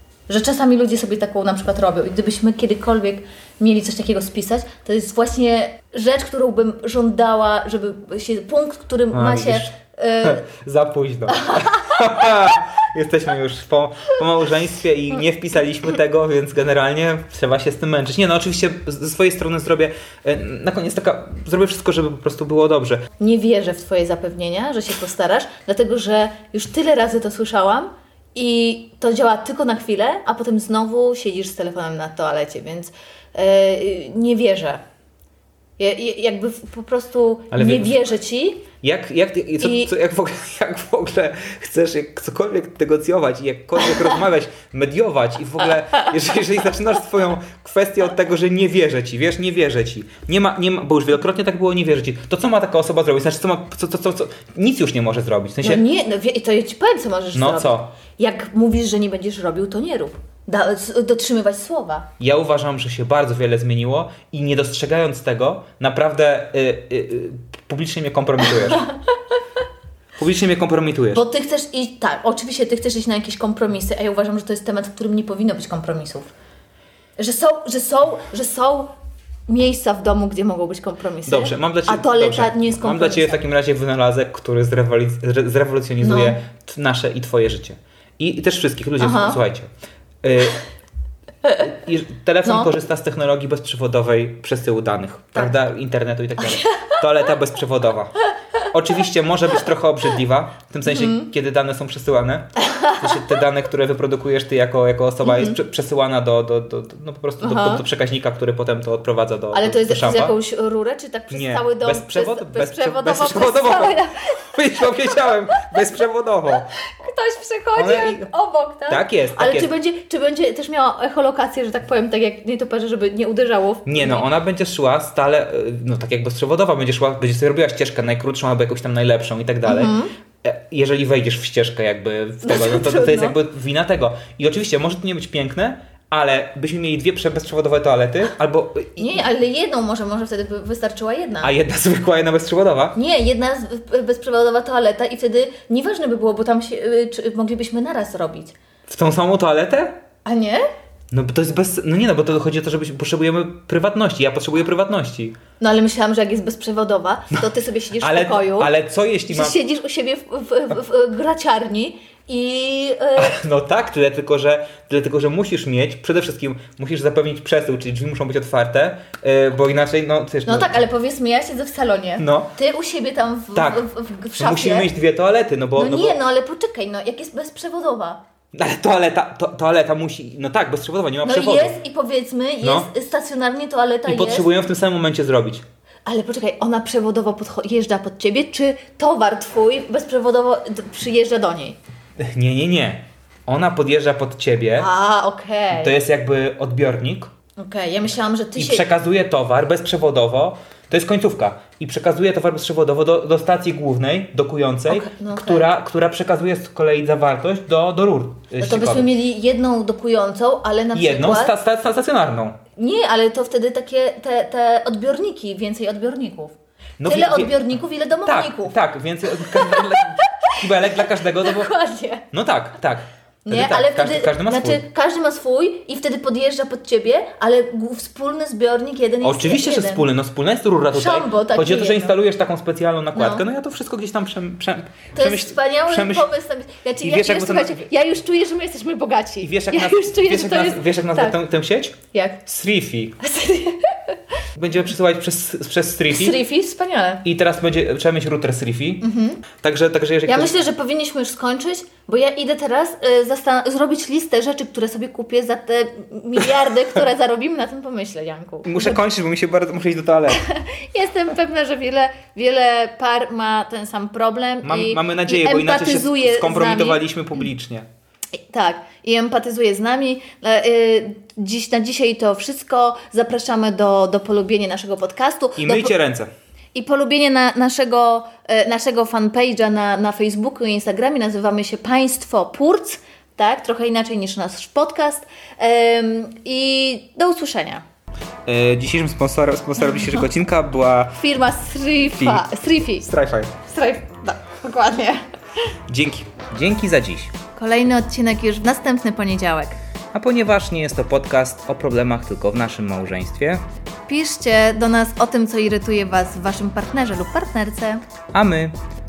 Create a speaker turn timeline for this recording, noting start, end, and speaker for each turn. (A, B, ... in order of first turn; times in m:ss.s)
0:00.3-0:10.4 A
0:09.1-0:23.1 B
0:11.4-0:11.8 A
0:23.2-0:34.8 A
0:35.8-0:38.7 A
0:37.5-0:38.0 B
0:38.8-0:55.8 B
0:39.6-0:39.9 A
0:55.6-1:02.1 A
0:57.3-0:57.9 B
1:02.2-1:08.8 B
1:08.4-1:08.9 A
1:10.2-1:11.2 B
1:11.1-1:16.3 A
1:17.2-1:18.9 A
1:19.5-1:23.4 A
1:21.2-1:29.7 B
1:26.0-1:26.4 A
1:29.0-1:29.4 A
1:30.2-1:30.6 B
1:31.6-1:38.2 B
1:32.4-1:32.7 A
1:36.4-1:37.0 A
1:38.7-1:50.3 B
1:40.8-1:41.3 A
1:42.6-1:43.0 A
1:45.2-1:45.6 A
1:47.4-1:47.8 A
1:49.5-1:55.8 A
1:51.3-1:56.6 B
1:56.7-2:04.2 A
1:57.8-1:58.2 B
1:58.9-1:59.7 B
2:03.8-2:19.2 B
2:09.6-2:10.1 A
2:12.4-2:13.4 A
2:19.0-2:21.5 A
2:21.4-2:23.0 B
2:22.9-2:28.5 A
2:28.9-2:30.0 B
2:30.2-2:30.6 A
2:31.1-2:35.4 B
2:35.6-2:38.7 A
2:38.0-2:39.6 B
2:39.3-2:43.3 A
2:43.2-2:50.8 B
2:50.4-2:54.9 A
2:52.2-2:52.5 B
2:53.5-2:53.8 B
2:54.4-2:56.2 B
2:55.7-2:58.2 A
2:58.5-3:01.8 B
3:01.2-3:04.5 A
3:02.6-3:02.9 B
3:04.0-3:05.6 B
3:06.0-3:11.8 A
3:12.2-3:14.9 B
3:14.8-3:16.0 A
3:15.7-3:17.3 B
3:17.6-3:18.8 A
3:18.6-3:29.1 B
3:24.9-3:25.7 A
3:28.6-3:31.5 A
3:30.9-3:32.6 B
3:32.8-3:38.7 A
3:37.0-3:37.7 B
3:38.2-3:41.7 B
3:39.3-3:42.2 A
3:42.3-3:44.8 B
3:43.4-3:50.1 A
3:49.2-3:56.3 B
3:50.9-3:52.2 A
3:53.1-3:53.4 A
3:55.2-4:01.4 A
3:57.0-3:57.9 B
3:59.4-4:03.2 B
4:02.1-4:02.4 A
4:03.2-4:04.2 A
4:04.6-4:06.4 B
4:06.1-4:07.2 A
4:07.2-4:09.0 B
4:09.0-4:09.4 A
4:09.6-4:10.6 B
4:10.2-4:19.0 A
4:18.6-4:20.4 B
4:20.3-4:27.0 A
4:24.6-4:27.9 B
4:28.4-4:35.9 A
4:35.6-4:36.3 B
4:36.7-4:47.8 A
4:48.4-4:51.2 B
4:51.2-4:53.1 A
4:52.1-4:53.5 B
4:53.6-4:55.2 A
4:55.9-4:57.3 B
4:57.5-4:59.8 A
5:00.1-5:03.6 B
5:04.1-5:08.0 A
5:08.3-5:08.7 B